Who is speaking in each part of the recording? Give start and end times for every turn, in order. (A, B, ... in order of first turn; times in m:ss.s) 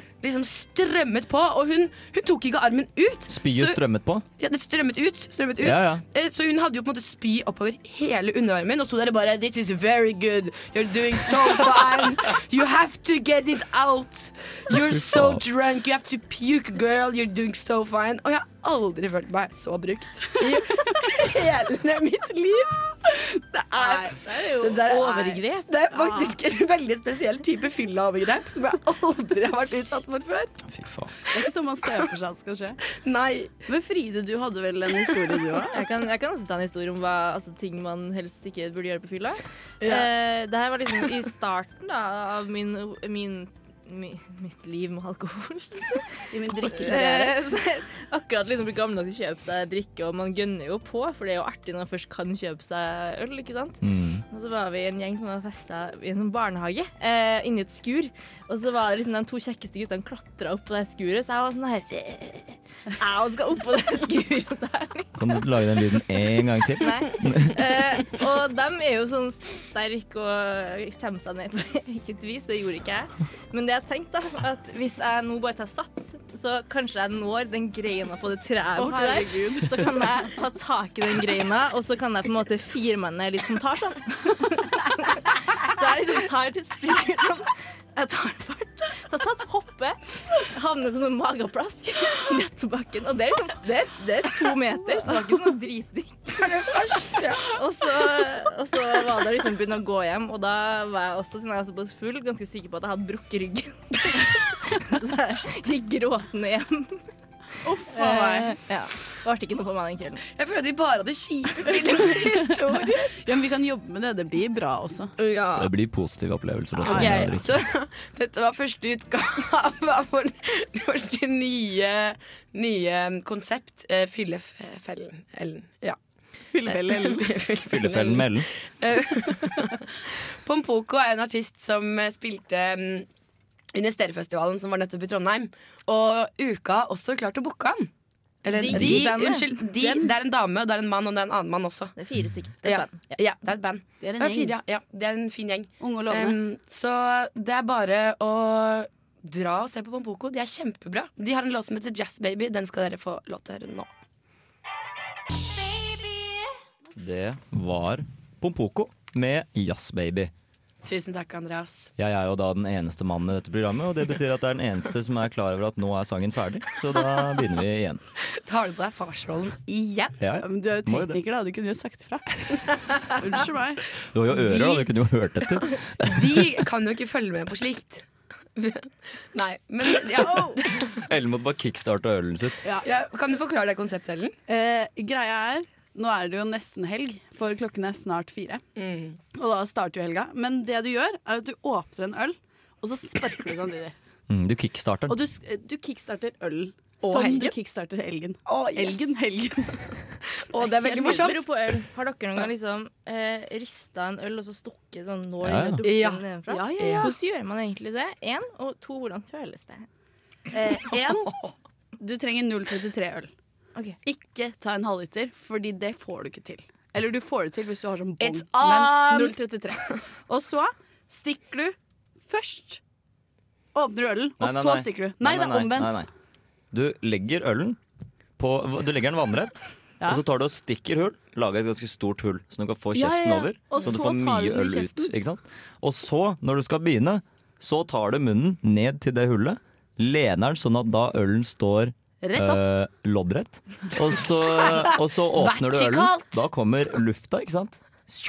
0:00.2-0:03.7 A
0:03.3-0:04.2 B
0:04.4-0:30.6 A
0:05.6-0:06.0 B
0:14.7-0:15.4 B
0:20.4-0:21.0 C
0:23.7-0:26.4 C
0:30.6-0:31.2 B
0:31.3-0:32.8 C
0:32.9-0:33.6 A
0:33.7-0:35.8 C
0:35.7-1:05.4 D
0:46.3-0:47.4 C
0:53.8-0:54.2 B
1:05.2-1:07.6 B
1:06.8-1:47.0 D
1:18.8-1:19.9 C
1:36.4-1:37.4 A
1:47.6-1:48.6 C
1:47.9-1:50.2 D
1:50.4-1:53.1 A
1:52.0-1:52.3 C
1:52.8-1:55.1 C
1:55.2-1:55.7 A
1:55.6-1:57.5 B
1:56.8-1:57.4 C
1:56.8-2:06.0 A
2:06.5-2:07.4 C
2:06.7-2:09.8 A
2:07.7-2:08.5 B
2:10.4-2:13.1 A
2:13.7-2:17.9 A
2:18.4-2:22.0 A
2:18.5-2:19.5 D
2:19.7-2:20.1 C
2:22.0-2:23.1 D
2:22.6-2:33.9 A
2:24.0-2:24.6 C
2:25.8-2:26.4 C
2:37.0-2:40.3 B
2:40.8-2:41.9 A
2:42.0-2:48.0 B
2:48.3-2:50.2 A
2:50.2-2:51.2 B
2:50.4-2:54.8 C
2:54.0-2:56.5 B
2:56.0-3:00.9 A
3:00.2-3:00.6 C
3:00.9-3:02.6 B
3:02.8-3:04.4 A
3:04.5-3:08.6 C
3:08.8-3:09.2 A
3:09.3-3:13.9 C
3:14.3-3:15.2 B
3:15.1-3:19.9 C
3:17.0-3:17.5 A
3:18.5-3:19.2 A
3:20.4-3:21.5 A
3:20.8-3:29.9 D
3:20.9-3:21.2 C
3:25.4-3:25.8 B
3:25.8-3:26.2 A
3:26.5-3:27.2 C
3:26.8-3:27.1 A
3:30.5-3:31.4 C
3:31.3-3:31.5 A
3:32.0-3:33.3 C
3:34.0-3:42.8 C
3:38.2-3:39.4 A
3:43.7-3:46.0 C
3:44.4-3:46.1 B
3:46.7-3:47.8 B
3:48.4-4:07.9 B
3:52.9-3:55.1 C
4:02.2-4:02.6 C
4:05.4-4:06.4 A